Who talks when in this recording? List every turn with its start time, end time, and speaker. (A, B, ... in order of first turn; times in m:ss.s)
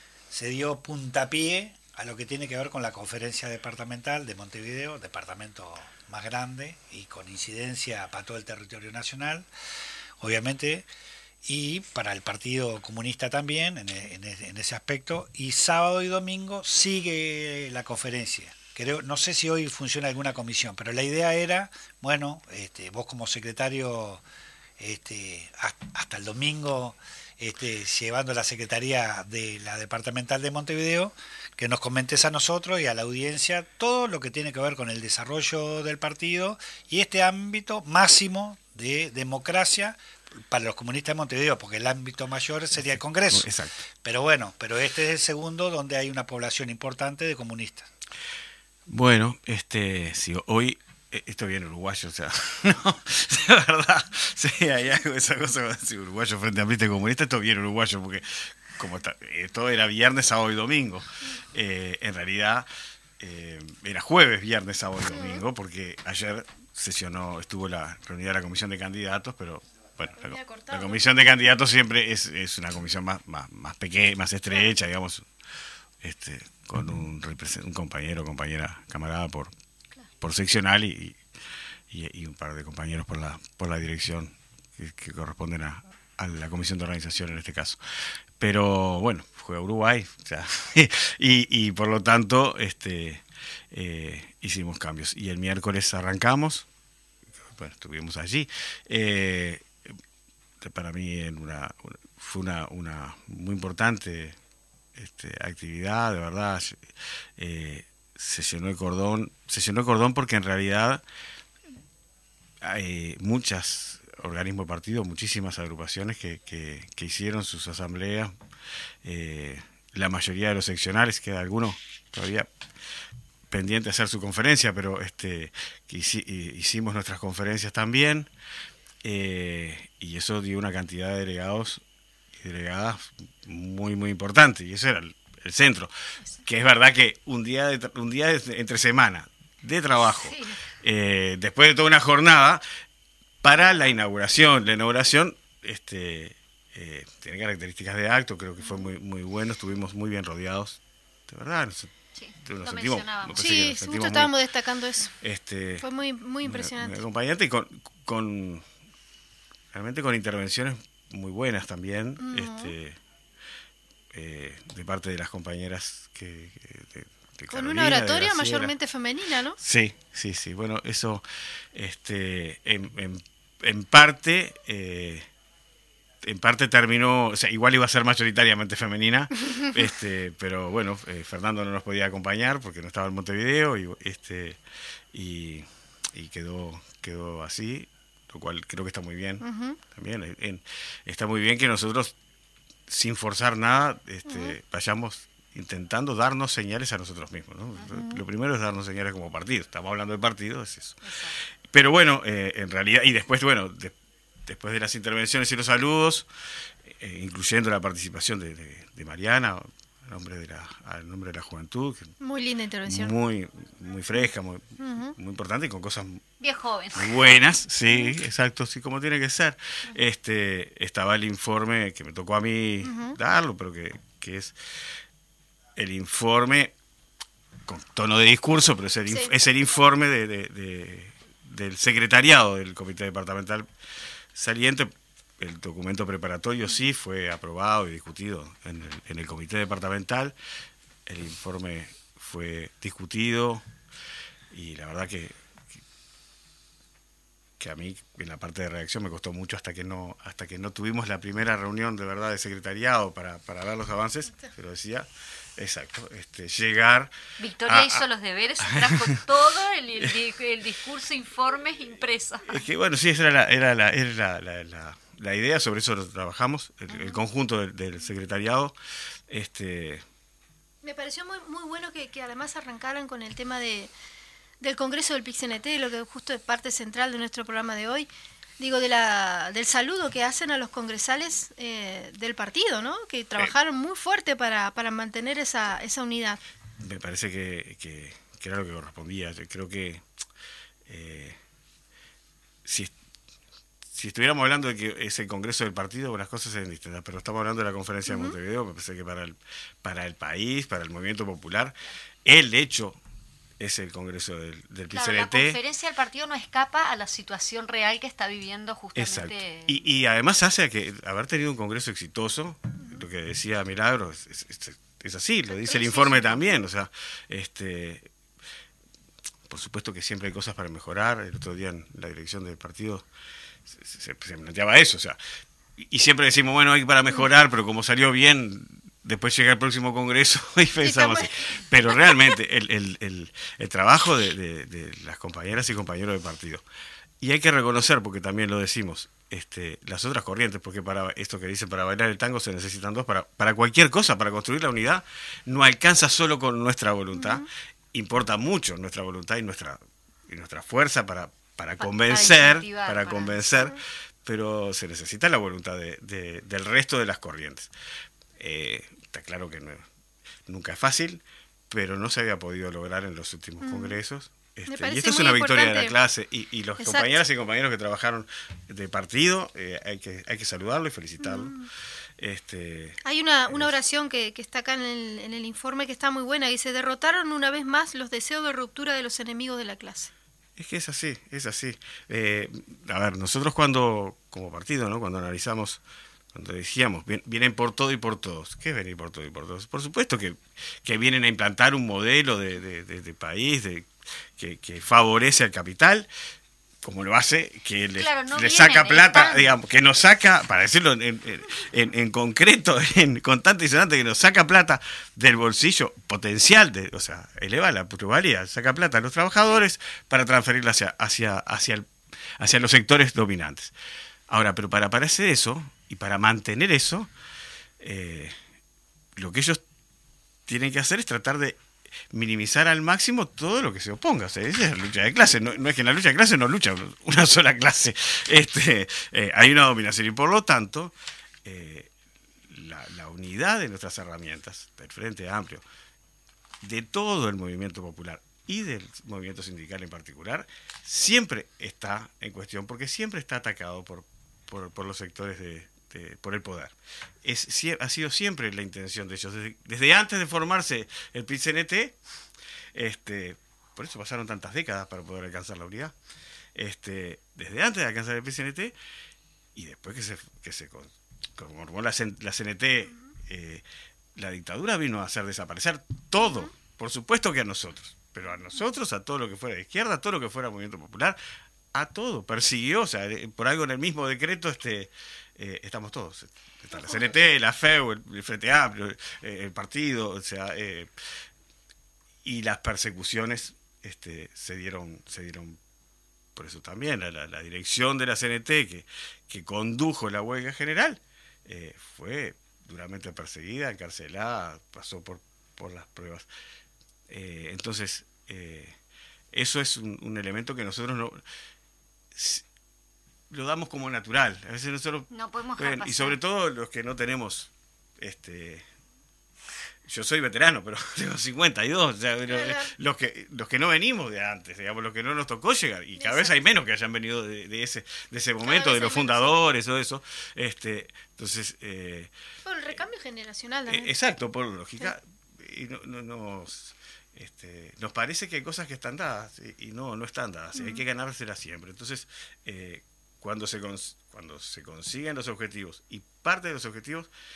0:00.3-0:09.5 A
0:10.2-0:10.9 A
0:11.4-0:24.2 A
0:24.8-0:43.5 A
0:43.3-0:43.8 B
0:44.0-0:47.9 A
0:48.9-1:02.7 B
1:03.2-1:15.3 B
1:05.1-1:05.4 C
1:10.2-1:11.2 C
1:16.0-1:19.5 B
1:20.2-1:21.2 B
1:21.9-1:27.8 B
1:28.4-1:36.7 B
1:37.6-1:39.7 B
1:40.6-1:44.4 B
1:45.0-1:46.8 B
1:47.4-1:51.0 B
1:52.6-1:58.3 B
1:59.0-2:02.5 B
2:03.5-2:08.3 B
2:09.0-2:11.8 B
2:12.4-2:15.9 B
2:16.4-2:22.6 B
2:20.0-2:20.6 D
2:23.4-2:31.9 B
2:32.2-2:33.4 D
2:32.4-2:34.3 B
2:33.4-2:35.1 C
2:35.2-2:35.9 B
2:35.8-2:37.0 C
2:36.4-2:38.6 B
2:39.7-2:43.0 B
2:42.2-2:42.7 C
2:44.1-2:48.7 B
2:47.5-2:49.6 C
2:49.6-2:55.3 B
2:56.2-3:04.6 B
3:05.1-3:12.1 B
3:09.4-3:09.8 C
3:12.9-3:21.0 B
3:14.3-3:14.6 C
3:17.8-3:18.2 D
3:21.0-3:21.4 D
3:21.7-3:26.3 B
3:27.0-3:32.1 B
3:32.2-3:33.1 C
3:32.9-3:36.2 B
3:34.8-3:35.2 C
3:36.4-3:37.3 D
3:36.9-3:44.6 B
3:42.8-3:43.2 C
3:45.8-3:46.7 B
3:47.6-3:53.7 B
3:49.1-3:49.3 C
3:54.4-4:00.4 B
4:01.1-4:03.6 B
4:04.5-4:05.4 B
4:07.6-4:17.1 B
4:17.4-4:22.6 D
4:17.6-4:18.0 B
4:18.7-4:19.2 B
4:22.5-4:28.8 B
4:29.3-4:30.0 B
4:30.8-4:33.9 C
4:34.6-4:38.1 C
4:38.6-4:46.4 C
4:46.8-4:50.0 B
4:50.9-4:51.4 B
4:52.6-4:52.9 B
4:53.9-5:03.0 B
4:58.1-4:58.4 C
5:03.6-5:05.6 B
5:04.9-5:09.8 D
5:09.0-5:18.1 B
5:15.5-5:16.5 C
5:19.5-5:23.1 B
5:23.7-5:25.2 B
5:25.8-5:36.6 B
5:30.8-5:31.3 C
5:37.2-5:57.7 B
5:47.1-5:47.5 C
5:51.8-5:53.6 D
5:58.4-5:59.9 B
6:00.5-6:11.6 B
6:03.6-6:04.0 C
6:04.7-6:05.9 C
6:06.8-6:07.2 C
6:11.2-6:11.7 C
6:12.2-6:13.7 B
6:13.0-6:20.1 C
6:20.6-6:25.8 B
6:26.3-6:36.1 B
6:36.8-6:53.7 B
6:37.9-6:39.6 D
6:54.3-6:57.1 B
6:57.8-6:58.4 B
6:59.2-6:59.6 B
7:00.5-7:10.9 B
7:11.4-7:11.9 B
7:12.5-7:15.6 B
7:16.6-7:32.0 B
7:32.7-7:35.9 B
7:36.5-7:38.8 B
7:39.5-7:43.6 B
7:44.2-7:51.2 B
7:46.2-7:46.5 C
7:51.7-8:00.9 B
8:02.2-8:05.6 B
8:06.4-8:16.3 B
8:17.1-8:18.8 B
8:19.3-8:21.2 B
8:22.1-8:22.4 B
8:23.3-8:28.6 B
8:25.1-8:26.2 D
8:29.8-8:42.1 B
8:32.3-8:32.8 C
8:36.0-8:36.4 C
8:38.4-8:39.3 C
8:42.4-8:43.9 C
8:43.7-8:57.1 B
8:50.5-8:50.8 C